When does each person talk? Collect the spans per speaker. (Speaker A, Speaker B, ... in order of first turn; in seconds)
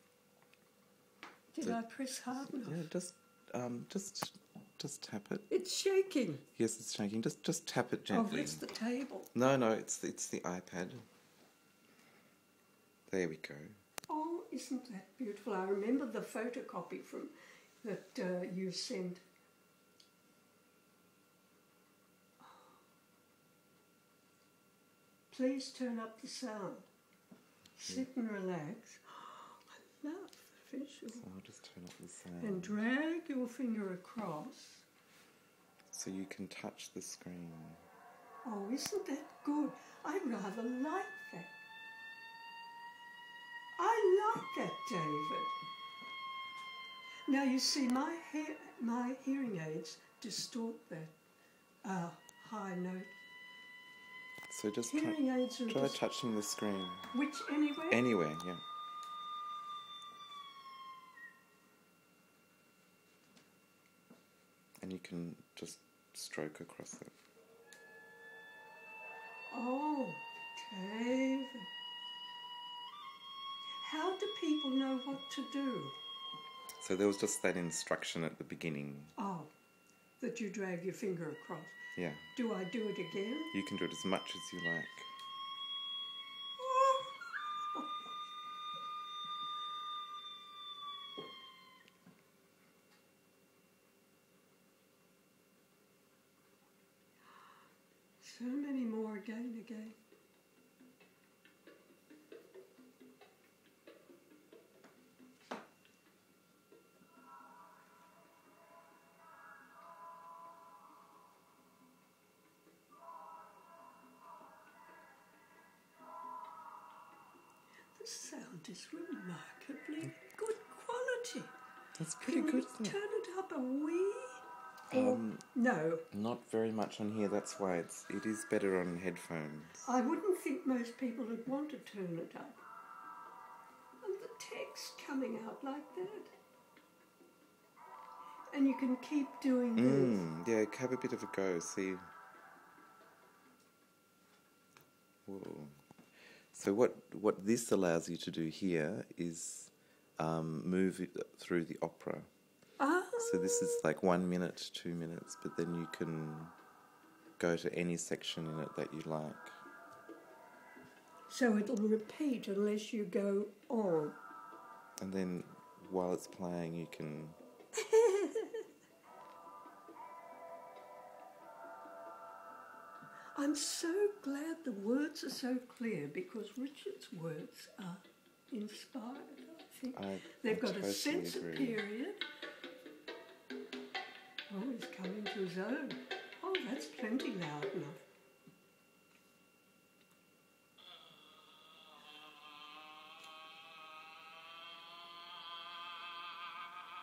Speaker A: 1.5-2.9, 5.5-6.4, 8.1-9.3, 14.1-19.2, 22.4-22.8, 25.3-26.9, 27.8-31.3, 32.4-34.9, 38.4-41.5, 43.8-45.5, 47.3-51.1, 51.8-53.1, 54.9-56.0, 57.1-58.0, 69.5-71.7, 73.8-76.0, 79.2-79.5, 80.2-81.8, 82.3-83.5, 86.6-87.9, 98.2-100.0, 117.9-121.5, 122.2-126.0, 129.8-132.6, 134.0-136.3, 138.5-140.2, 152.8-153.8, 161.3-164.2, 167.7-168.7, 173.3-182.2, 184.5-188.0
Speaker B: 2.4-5.5, 6.5-8.6, 9.3-11.1, 13.1-13.8, 31.1-32.8, 35.9-37.8, 54.5-57.1, 57.9-58.6, 64.8-67.1, 76.8-79.1, 82.0-82.3, 83.5-85.1, 122.0-123.0, 124.9-125.5, 126.1-129.9, 139.8-142.1, 145.2-145.8, 146.5-152.3, 153.2-156.5, 157.4-159.6, 165.0-167.4, 179.9-181.8